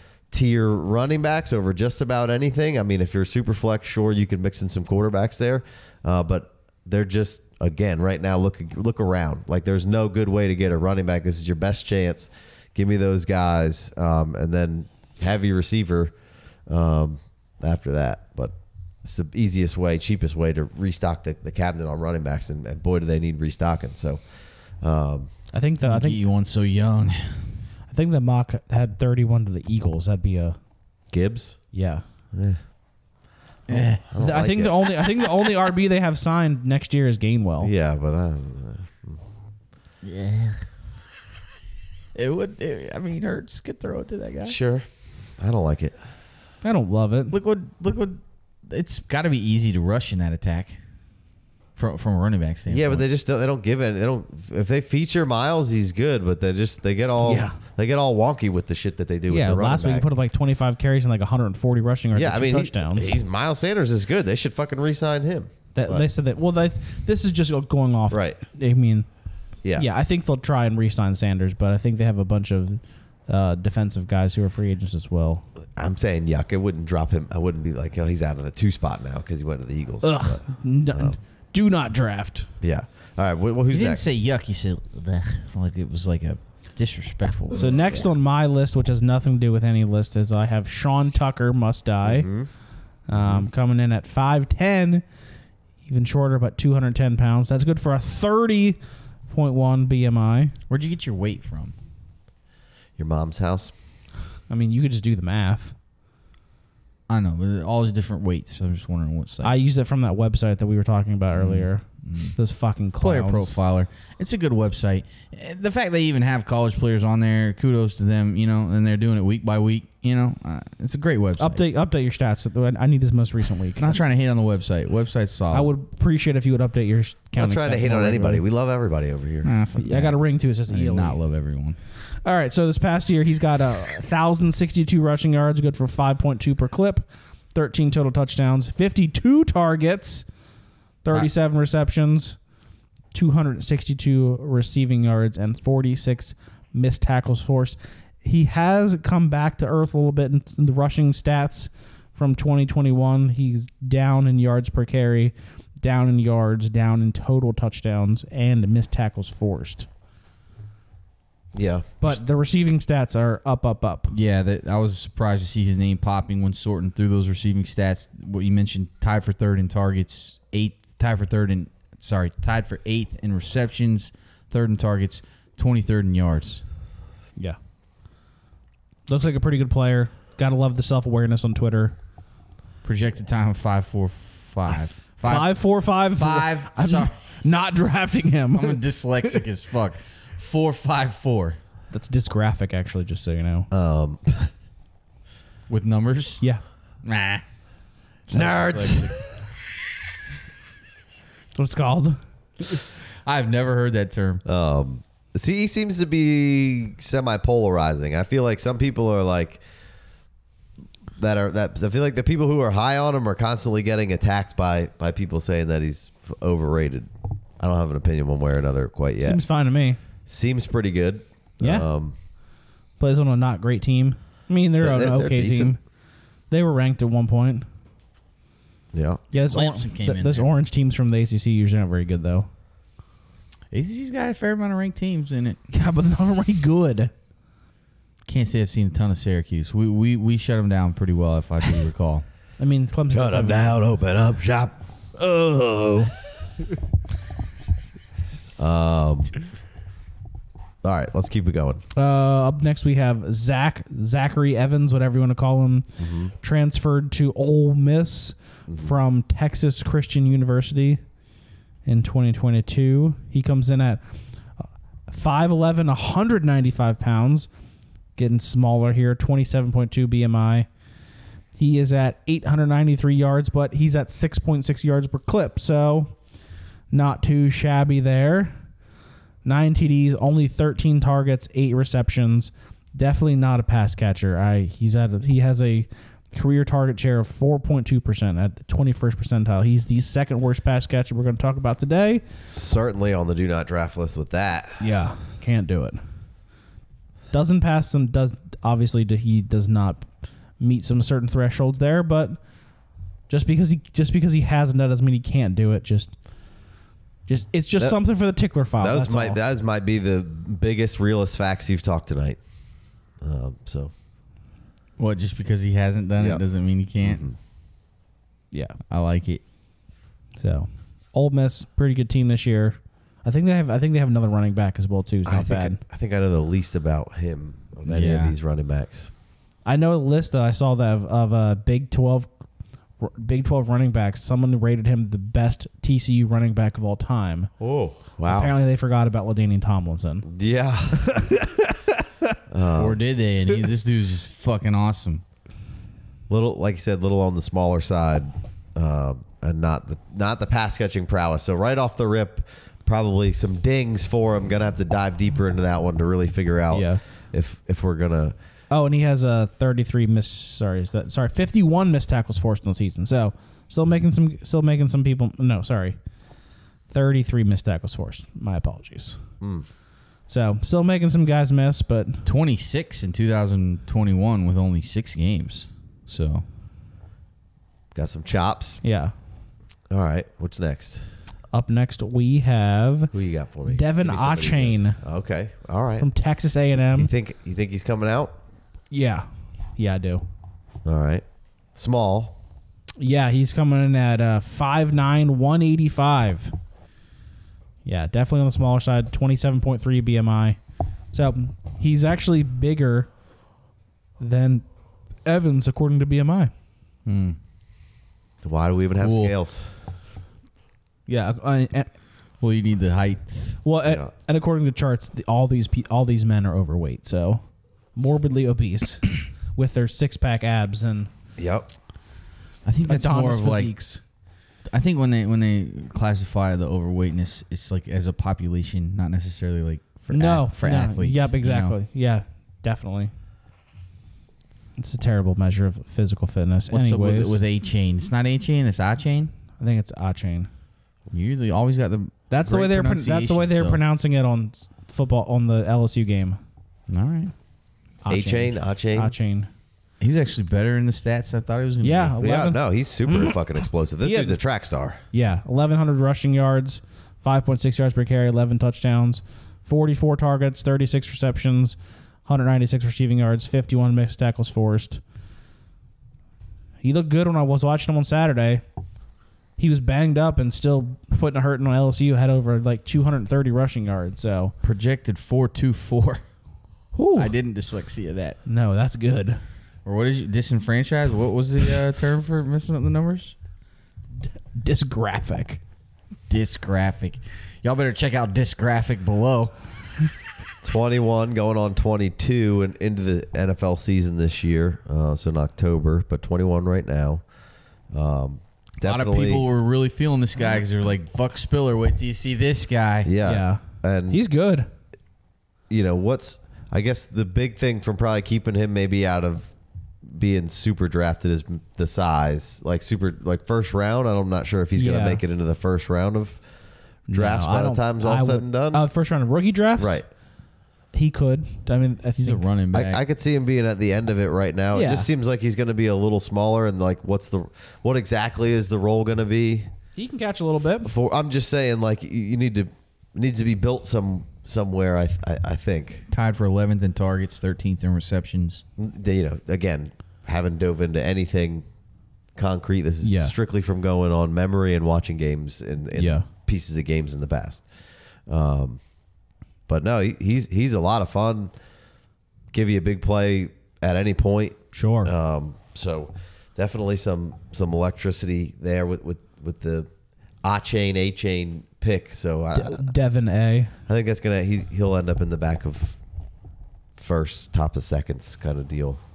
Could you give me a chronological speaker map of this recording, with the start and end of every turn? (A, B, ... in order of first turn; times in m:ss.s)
0:00.3-0:25.5 A
0:25.5-0:26.2 B
0:25.8-0:27.6 C
0:27.9-0:30.6 B
0:31.1-0:31.8 A
0:31.7-0:32.0 B
0:32.3-0:32.7 A
0:33.7-0:34.1 C
0:33.7-0:37.7 B
0:34.1-0:35.1 A
0:37.6-0:39.2 A
0:40.0-0:40.7 C
0:42.1-0:44.6 C
0:44.4-0:46.0 A
0:46.6-0:47.3 B
0:47.3-0:50.8 C
0:51.8-0:53.0 C
0:52.7-1:00.1 A
0:57.2-0:57.6 B
0:59.3-1:03.2 B
1:02.1-1:06.0 A
1:05.8-1:15.5 B
1:08.1-1:08.4 A
1:15.8-1:21.2 A
1:20.0-1:22.5 B
1:22.6-1:24.1 A
1:23.7-1:28.1 C
1:27.6-1:35.1 B
1:32.0-1:33.5 A
1:35.8-1:40.6 B
1:40.7-1:41.7 C
1:43.0-1:43.7 A
1:44.5-1:45.8 B
1:47.1-1:49.5 C
1:49.4-1:53.6 B
1:51.3-1:52.4 C
1:53.0-2:01.6 C
2:01.4-2:03.9 B
2:03.8-2:05.7 C
2:05.5-2:08.4 B
2:07.4-2:09.6 A
2:09.4-2:11.8 C
2:09.8-2:11.2 B
2:12.0-2:20.5 B
2:21.0-2:22.5 B
2:23.1-2:39.9 B
2:41.5-2:42.1 A
2:42.0-2:44.2 B
2:44.1-2:56.6 C
2:59.1-3:02.0 B
3:02.8-3:07.4 C
3:05.2-3:09.4 B
3:08.6-3:11.6 C
3:11.9-3:13.7 B
3:13.7-3:14.5 A
3:15.7-3:17.4 C
3:18.3-3:19.2 A
3:18.3-3:19.0 B
3:18.3-3:19.1 C
3:21.5-3:22.8 B
3:23.2-3:24.4 C
3:24.4-3:29.6 A
3:31.2-3:39.4 A
3:39.2-3:40.0 B
3:40.3-3:42.2 A
3:41.6-3:41.9 B
3:43.0-3:47.7 B
3:44.8-3:45.8 A
3:48.9-3:49.2 A
3:49.3-3:52.5 B
3:49.5-3:50.5 C
3:53.7-3:55.6 C
3:55.7-3:57.1 B
3:58.2-4:02.3 C
4:02.6-4:03.8 B
4:03.1-4:04.8 A
4:05.2-4:06.1 B
4:08.6-4:09.4 A
4:10.8-4:11.8 A
4:12.0-4:21.1 B
4:16.0-4:16.3 A
4:21.8-4:27.5 B
4:28.1-4:30.7 B
4:31.5-4:38.8 B
4:39.4-4:52.2 B
4:52.4-4:54.8 A
4:54.8-4:56.0 B
4:57.3-5:09.4 B
5:07.8-5:13.9 A
5:15.0-5:17.3 C
5:16.2-5:16.4 A
5:17.0-5:17.4 A
5:18.5-5:18.8 B
5:18.9-5:19.5 C
5:20.4-5:25.8 B
5:25.3-5:29.1 A
5:27.9-5:28.4 C
5:29.6-5:37.5 B
5:37.6-5:38.5 A
5:38.2-5:40.3 B
5:40.3-5:41.2 A
5:41.0-5:41.8 B
5:42.5-5:43.0 A
5:42.7-5:45.2 C
5:46.3-5:58.4 A
5:56.7-5:57.0 B
5:58.7-6:06.0 B
6:06.8-6:09.4 B
6:09.4-6:09.7 A
6:10.2-6:12.2 B
6:12.2-6:16.4 C
6:17.9-6:18.8 A
6:18.8-6:19.2 B
6:19.9-6:21.0 A
6:21.5-6:23.1 B
6:23.1-6:26.1 A
6:23.7-6:25.0 B
6:26.0-6:27.1 B
6:27.0-6:28.4 A
6:28.9-6:30.2 B
6:30.8-6:32.4 A
6:33.0-6:36.6 B
6:37.8-6:40.6 B
6:41.1-6:43.2 B
6:44.2-6:46.5 B
6:47.0-6:47.4 C
6:48.4-6:49.7 A
6:49.0-6:49.3 C
6:51.1-6:52.0 B
6:52.4-6:53.6 C
6:53.6-7:01.1 B
6:53.8-6:54.1 A
7:01.4-7:01.7 A
7:02.6-7:04.1 C
7:02.9-7:04.0 B
7:04.6-7:11.7 C
7:10.1-7:13.1 B
7:14.8-7:17.4 B
7:16.7-7:19.3 C
7:19.6-7:20.5 B
7:21.1-7:23.8 C
7:22.3-7:26.4 B
7:26.9-7:27.3 C
7:28.0-7:29.5 B
7:28.1-7:29.1 A
7:30.0-7:32.1 C
7:31.8-7:33.4 B
7:32.2-7:35.0 A
7:34.0-7:34.4 B
7:35.1-7:45.0 B
7:46.8-7:48.6 B
7:49.6-7:54.5 B
7:54.6-7:56.4 C
7:56.9-7:57.3 B
7:57.2-7:58.4 C
7:58.5-7:59.4 B
7:59.8-8:03.4 C
8:04.6-8:05.6 B
8:06.3-8:10.0 C
8:10.6-8:19.5 A
8:18.8-8:23.1 C
8:23.0-8:24.2 A
8:23.2-8:24.7 B
8:25.7-8:38.9 A
8:34.8-8:35.2 B
8:37.1-8:40.1 B
8:39.8-8:40.1 A
8:40.9-8:42.4 B
8:42.2-8:43.0 C
8:42.7-8:49.7 A
8:44.7-8:45.1 B
8:50.0-8:50.9 B
8:50.8-8:56.0 A
8:56.1-8:58.6 C
8:58.8-9:01.8 A
9:02.3-9:08.9 A
9:03.0-9:03.4 B
9:05.9-9:06.3 B
9:09.7-9:11.6 A
9:12.5-9:22.9 A
9:14.7-9:15.1 B
9:22.6-9:23.8 B
9:23.9-9:26.0 A
9:26.9-9:29.0 A